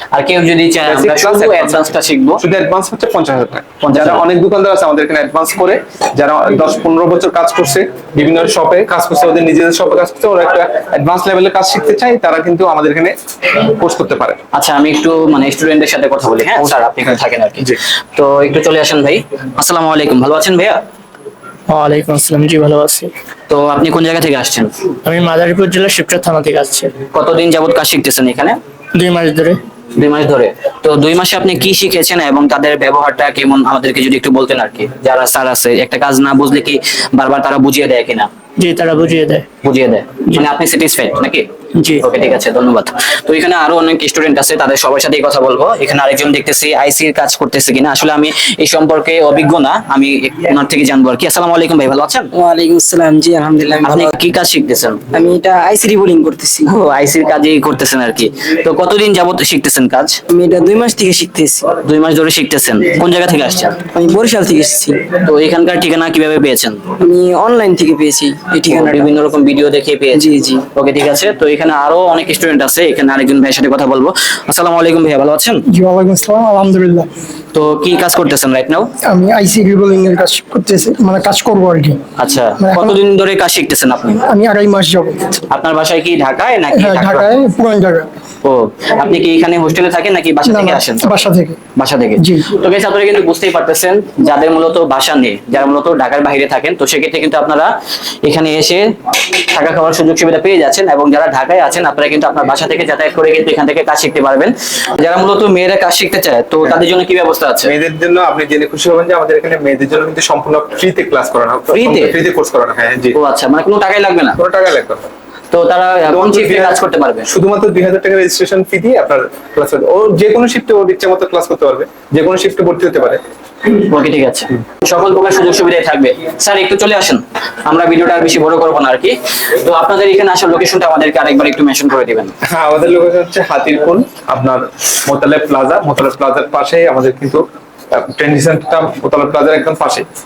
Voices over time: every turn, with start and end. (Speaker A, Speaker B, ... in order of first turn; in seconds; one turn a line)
Speaker A: 0.1-2.4
Speaker B: 0.8-1.8
Speaker B: 2.4-14.4
Speaker A: 3.8-4.2
Speaker A: 14.5-20.8
Speaker B: 17.0-17.8
Speaker C: 21.7-23.1
Speaker A: 23.5-24.7
Speaker C: 25.0-26.9
Speaker A: 27.1-28.6
Speaker C: 28.9-29.6
Speaker A: 29.9-38.3
Speaker C: 38.6-39.5
Speaker A: 39.6-52.3
Speaker C: 41.8-42.0
Speaker D: 52.3-54.1
Speaker A: 53.8-55.0
Speaker D: 55.1-56.7
Speaker A: 56.6-60.2
Speaker D: 60.3-61.7
Speaker A: 61.8-63.8
Speaker D: 63.9-65.0
Speaker A: 65.2-66.8
Speaker D: 67.0-69.1
Speaker A: 68.7-75.6
Speaker D: 70.1-70.6
Speaker E: 75.7-77.1
Speaker A: 77.5-78.9
Speaker E: 79.0-82.0
Speaker A: 82.2-84.2
Speaker E: 82.6-83.0
Speaker E: 84.2-85.4
Speaker A: 85.5-87.3
Speaker E: 86.7-88.1
Speaker A: 88.4-91.2
Speaker E: 90.5-91.6
Speaker A: 91.8-107.7
Speaker E: 92.2-92.5
Speaker B: 107.6-113.2
Speaker A: 111.7-112.1
Speaker A: 113.1-114.4
Speaker B: 114.4-115.0
Speaker A: 115.5-117.3
Speaker B: 116.0-123.2
Speaker A: 123.7-132.3
Speaker B: 132.4-140.1